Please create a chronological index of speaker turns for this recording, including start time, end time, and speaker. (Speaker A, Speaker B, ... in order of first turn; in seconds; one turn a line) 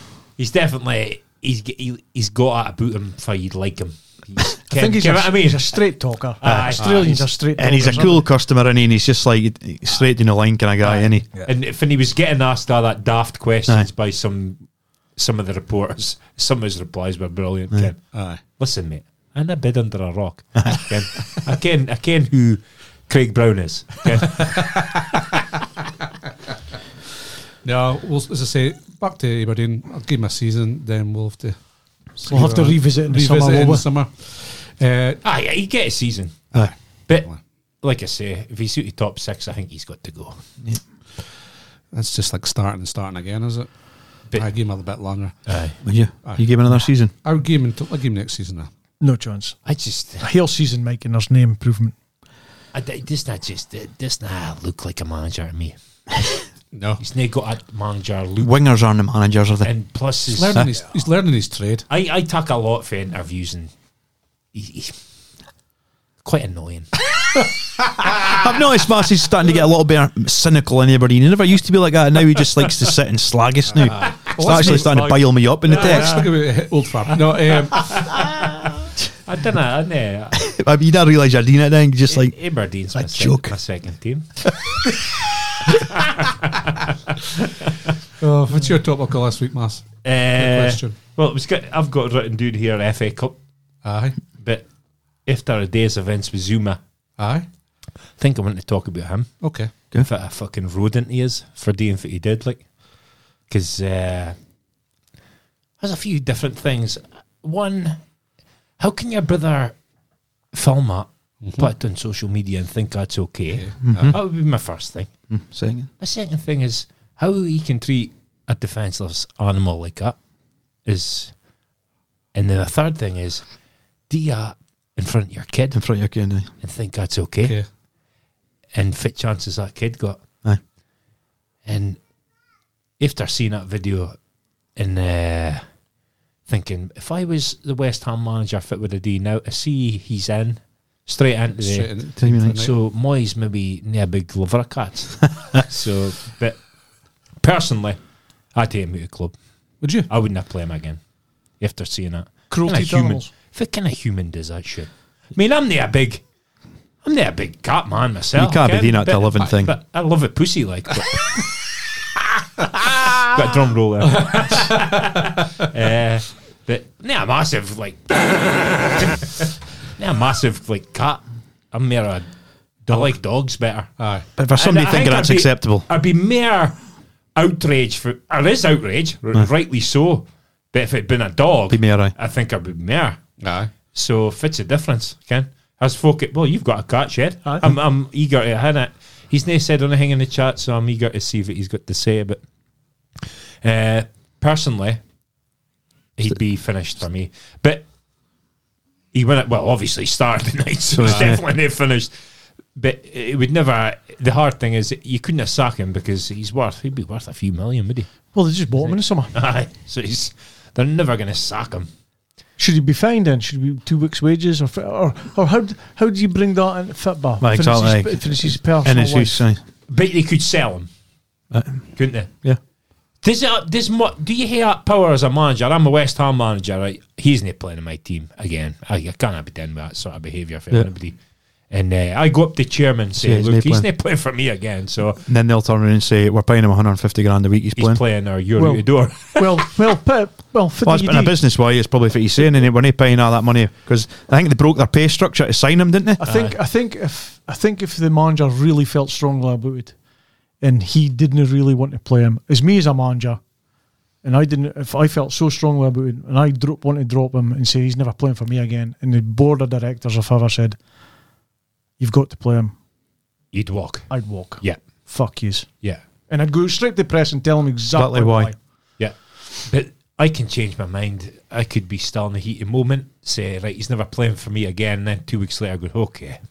Speaker A: 0.4-5.8
Speaker B: 4.7-8.3
Speaker A: 6.4-7.2
Speaker C: 6.4-6.8
Speaker D: 6.8-7.1
Speaker C: 7.6-11.3
Speaker D: 10.9-11.5
Speaker A: 11.4-14.6
Speaker A: 15.2-25.0
Speaker D: 18.1-18.4
Speaker D: 27.6-31.6
Speaker D: 32.1-35.2
Speaker B: 32.2-33.9
Speaker A: 35.2-36.5
Speaker A: 37.8-40.4
Speaker D: 41.9-43.7
Speaker D: 44.2-45.5
Speaker A: 45.5-45.8
Speaker C: 45.8-47.1
Speaker D: 46.2-48.7
Speaker B: 49.0-49.6
Speaker A: 49.7-50.2
Speaker B: 50.2-52.0
Speaker A: 52.7-55.8
Speaker D: 56.7-57.0
Speaker A: 57.0-58.5
Speaker C: 58.4-59.7
Speaker A: 59.6-60.7
Speaker D: 60.3-61.9
Speaker A: 61.9-63.7
Speaker A: 64.5-65.0
Speaker A: 66.2-67.5
Speaker C: 68.4-76.2
Speaker D: 73.7-78.2
Speaker A: 74.5-75.0
Speaker A: 75.8-76.3
Speaker A: 77.7-80.5
Speaker C: 80.4-82.3
Speaker A: 82.1-84.8
Speaker C: 83.0-83.5
Speaker A: 85.7-86.7
Speaker D: 88.2-91.0
Speaker A: 90.0-93.3
Speaker D: 93.8-94.2
Speaker A: 94.4-94.7
Speaker A: 95.2-96.8
Speaker D: 97.2-97.5
Speaker A: 98.2-102.7
Speaker D: 99.4-99.7
Speaker A: 103.5-104.4
Speaker A: 105.8-108.0
Speaker A: 108.8-109.8
Speaker A: 110.5-115.1
Speaker D: 111.4-111.7
Speaker D: 113.5-114.2
Speaker C: 113.8-114.2
Speaker C: 115.3-115.9
Speaker A: 116.0-120.2
Speaker A: 120.9-121.3
Speaker A: 122.3-123.4
Speaker A: 124.1-125.8
Speaker C: 125.7-126.5
Speaker A: 126.6-127.6
Speaker A: 128.7-130.2
Speaker A: 131.7-132.0
Speaker A: 133.0-134.2
Speaker A: 134.8-135.6
Speaker A: 136.5-141.9
Speaker D: 141.6-142.7
Speaker C: 142.2-142.6
Speaker A: 142.5-146.6
Speaker A: 147.4-148.0
Speaker A: 148.5-149.3
Speaker D: 149.8-150.1
Speaker A: 150.1-151.0
Speaker A: 151.6-156.2
Speaker B: 152.5-153.3
Speaker A: 157.0-161.5
Speaker C: 158.4-159.7
Speaker A: 162.6-169.4
Speaker D: 164.2-165.0
Speaker A: 170.0-172.3
Speaker A: 172.8-173.9
Speaker D: 174.0-174.3
Speaker C: 174.4-175.9
Speaker A: 174.6-176.8
Speaker A: 177.4-183.2
Speaker C: 181.7-182.1
Speaker D: 183.4-183.7
Speaker A: 183.9-192.4
Speaker A: 193.6-195.0
Speaker A: 196.2-197.8
Speaker A: 199.1-202.1
Speaker C: 200.9-201.4
Speaker D: 201.1-201.4
Speaker A: 202.8-208.1
Speaker B: 208.3-209.3
Speaker A: 209.3-211.9
Speaker B: 212.6-219.4
Speaker C: 217.4-219.6
Speaker A: 219.9-220.9
Speaker C: 221.5-222.6
Speaker A: 222.0-222.3
Speaker A: 223.2-231.2
Speaker A: 231.7-235.2
Speaker C: 233.2-233.9
Speaker C: 235.3-238.0
Speaker A: 237.8-239.5
Speaker B: 238.6-241.4
Speaker C: 240.8-246.2
Speaker B: 246.2-250.0
Speaker A: 246.2-246.5
Speaker B: 250.6-253.4
Speaker B: 254.2-260.8
Speaker B: 262.0-262.7
Speaker A: 263.5-264.8
Speaker B: 264.1-265.7
Speaker B: 266.3-268.6
Speaker C: 267.9-268.5
Speaker A: 269.0-276.4